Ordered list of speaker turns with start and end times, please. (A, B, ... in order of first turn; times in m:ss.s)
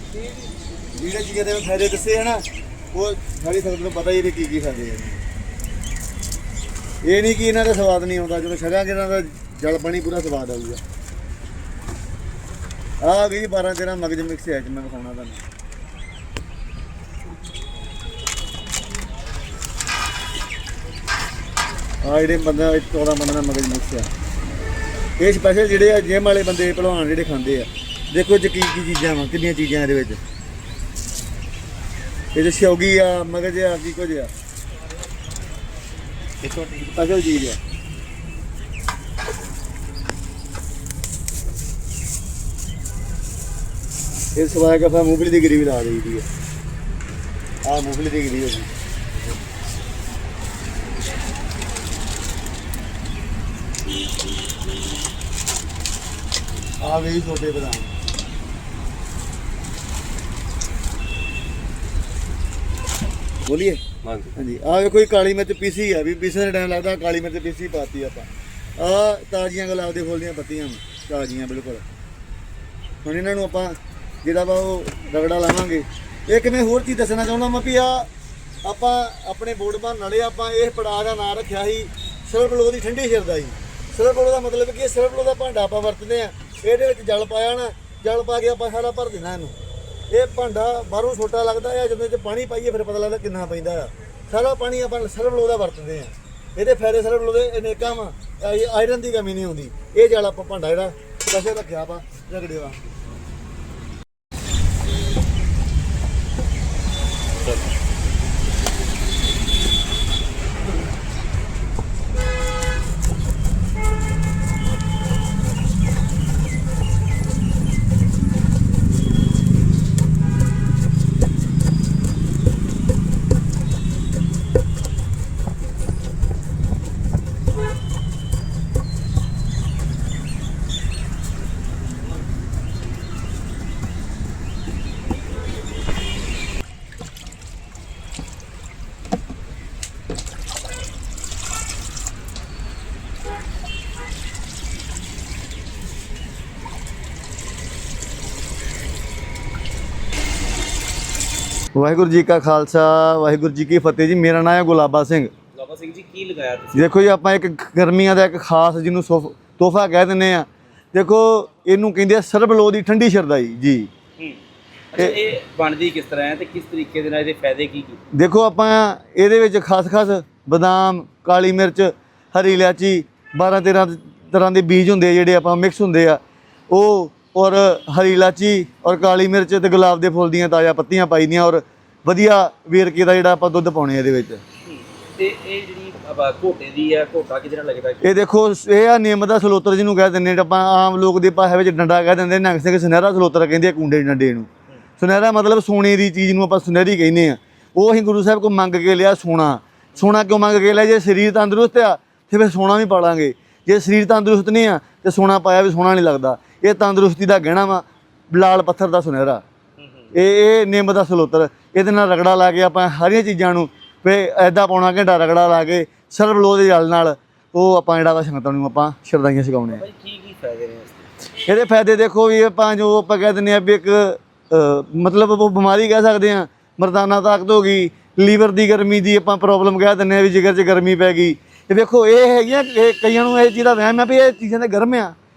0:00.9-0:05.2 A
0:07.0-0:10.8 A
0:13.0-0:15.4 A
0:22.0-0:24.1 A
0:25.2-0:30.2 A
0:32.3-0:34.3 A
0:36.6-0:37.6 A
0:44.4-0:46.3 A
0:47.6-0:48.7 A
0:56.8-0:57.9 A
1:03.5-1:11.8 A
1:13.0-1:18.1 A
1:18.6-1:29.5 A
1:30.1-1:42.8 A
2:31.8-2:35.3 A
2:35.5-2:36.9 B
2:36.8-2:43.9 A
2:44.9-2:48.0 B
2:48.1-3:04.4 A
3:04.6-3:08.2 B
3:08.0-3:14.5 A
3:15.0-3:29.4 A
3:29.8-3:30.1 B
3:30.1-3:39.8 A
3:39.7-3:41.1 B
3:41.5-3:55.2 A